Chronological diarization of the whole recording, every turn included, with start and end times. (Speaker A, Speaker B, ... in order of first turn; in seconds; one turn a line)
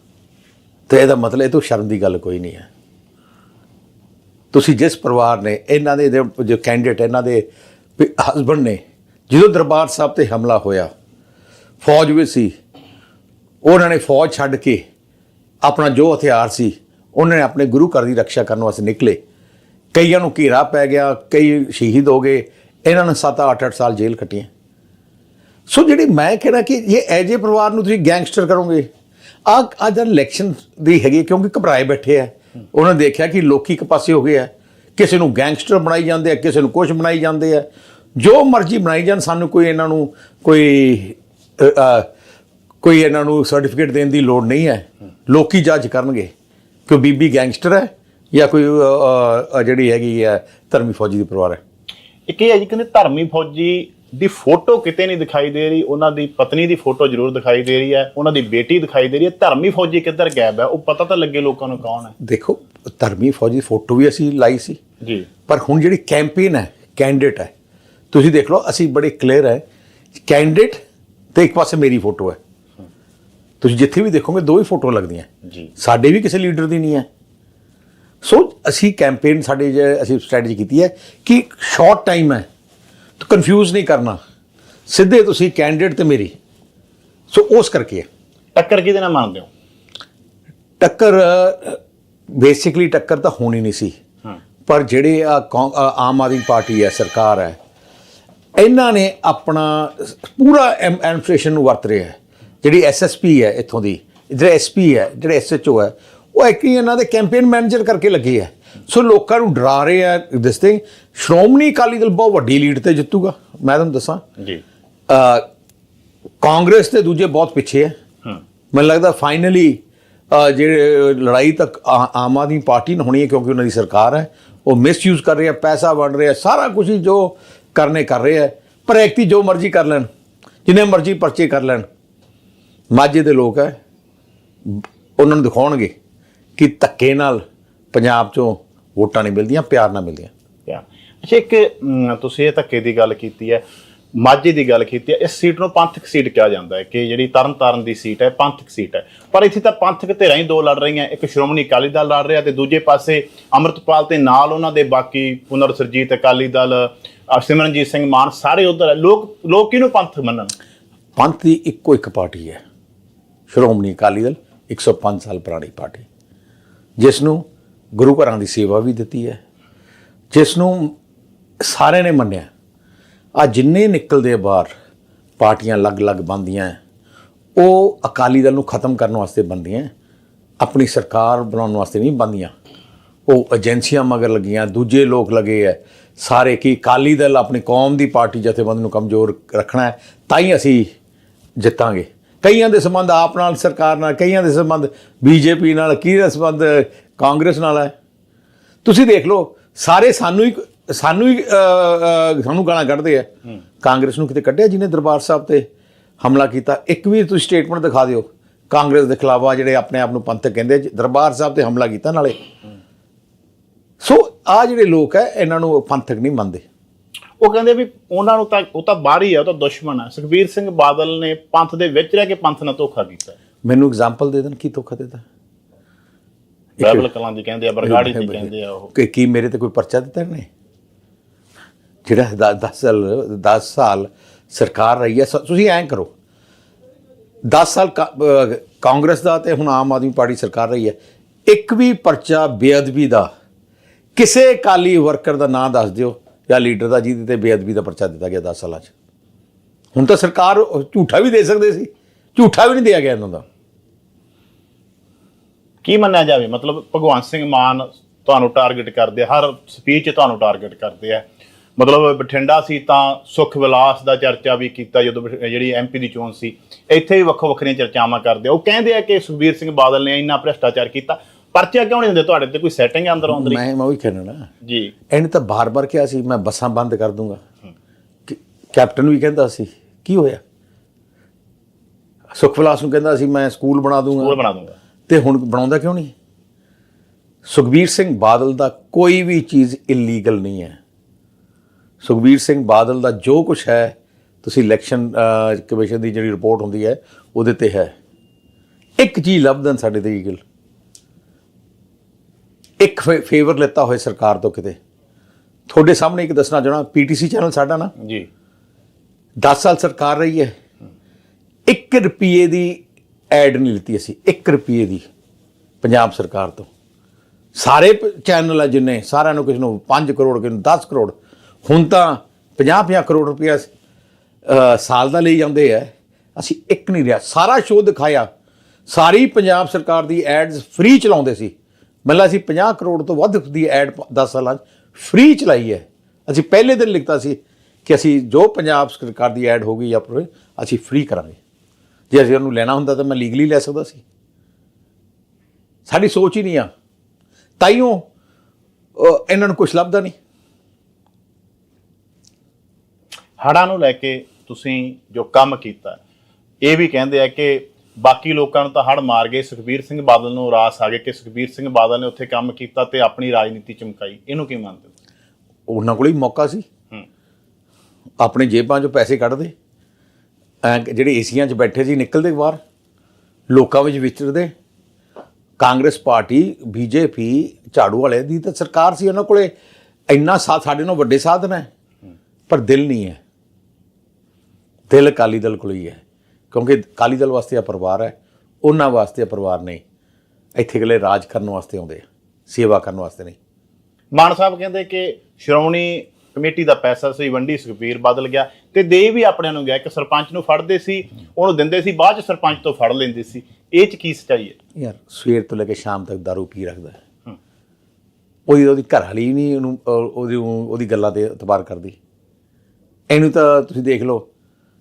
Speaker A: 0.9-2.7
Speaker A: 4.5-7.5
Speaker A: 8.0-10.9
Speaker A: 11.8-12.5
Speaker A: 13.6-14.8
Speaker A: 15.6-19.2
Speaker A: 19.9-24.5
Speaker A: 25.7-28.9
Speaker A: 29.5-42.1
Speaker A: 42.8-46.3
Speaker A: 46.9-51.6
Speaker B: 52.3-62.1
Speaker A: 62.2-64.8
Speaker B: 65.0-65.3
Speaker A: 65.5-67.5
Speaker A: 68.1-69.6
Speaker A: 70.2-70.8
Speaker A: 71.3-72.4
Speaker A: 73.6-77.1
Speaker A: 78.2-82.5
Speaker A: 83.2-84.2
Speaker A: 84.9-86.3
Speaker A: 87.3-88.1
Speaker B: 88.5-89.5
Speaker A: 90.8-94.0
Speaker A: 94.7-97.6
Speaker A: 98.6-114.2
Speaker A: 115.1-115.5
Speaker A: 116.4-117.9
Speaker A: 118.7-130.1
Speaker A: 130.7-131.9
Speaker A: 132.9-133.8
Speaker A: 134.7-135.9
Speaker A: 136.6-140.3
Speaker B: 140.7-143.6
Speaker B: 144.1-160.5
Speaker A: 161.2-162.6
Speaker A: 163.5-166.1
Speaker A: 167.0-167.4
Speaker A: 168.0-169.4
Speaker A: 170.3-170.9
Speaker A: 171.6-172.5
Speaker A: 173.4-174.7
Speaker A: 175.4-176.8
Speaker A: 177.6-179.9
Speaker A: 180.6-182.5
Speaker A: 183.3-190.9
Speaker A: 191.6-197.9
Speaker A: 198.8-203.3
Speaker A: 203.8-205.7
Speaker A: 206.2-212.4
Speaker A: 214.0-216.6
Speaker B: 217.4-223.4
Speaker A: 223.6-225.2
Speaker A: 226.8-227.1
Speaker B: 226.8-228.9
Speaker A: 227.8-230.5
Speaker A: 232.1-236.1
Speaker A: 237.5-241.0
Speaker A: 241.5-243.3
Speaker A: 244.2-248.9
Speaker A: 249.9-253.4
Speaker B: 255.8-261.2
Speaker B: 261.8-273.6
Speaker A: 273.3-274.5
Speaker B: 274.6-274.9
Speaker A: 275.1-277.4
Speaker A: 278.3-280.4
Speaker A: 282.4-284.4
Speaker B: 284.2-284.8
Speaker A: 285.1-286.1
Speaker A: 287.4-290.8
Speaker A: 292.0-297.9
Speaker A: 299.0-300.4
Speaker A: 302.8-304.8
Speaker A: 305.7-307.9
Speaker B: 308.0-308.3
Speaker A: 309.4-310.5
Speaker A: 311.7-315.1
Speaker A: 315.8-316.7
Speaker A: 317.6-323.7
Speaker A: 324.4-328.3
Speaker A: 328.9-331.5
Speaker A: 332.1-341.4
Speaker A: 342.1-344.0
Speaker A: 345.9-346.7
Speaker A: 347.6-348.1
Speaker A: 349.0-350.1
Speaker B: 353.4-356.0
Speaker B: 356.6-364.9
Speaker A: 365.7-366.6
Speaker A: 368.2-369.5
Speaker A: 370.6-372.6
Speaker A: 373.5-374.5
Speaker A: 375.6-379.5
Speaker A: 380.1-381.7
Speaker A: 382.5-383.2
Speaker A: 384.9-386.0
Speaker A: 386.5-389.8
Speaker A: 390.6-393.4
Speaker B: 394.1-404.6
Speaker A: 404.8-407.0
Speaker A: 408.5-412.0
Speaker A: 413.1-414.3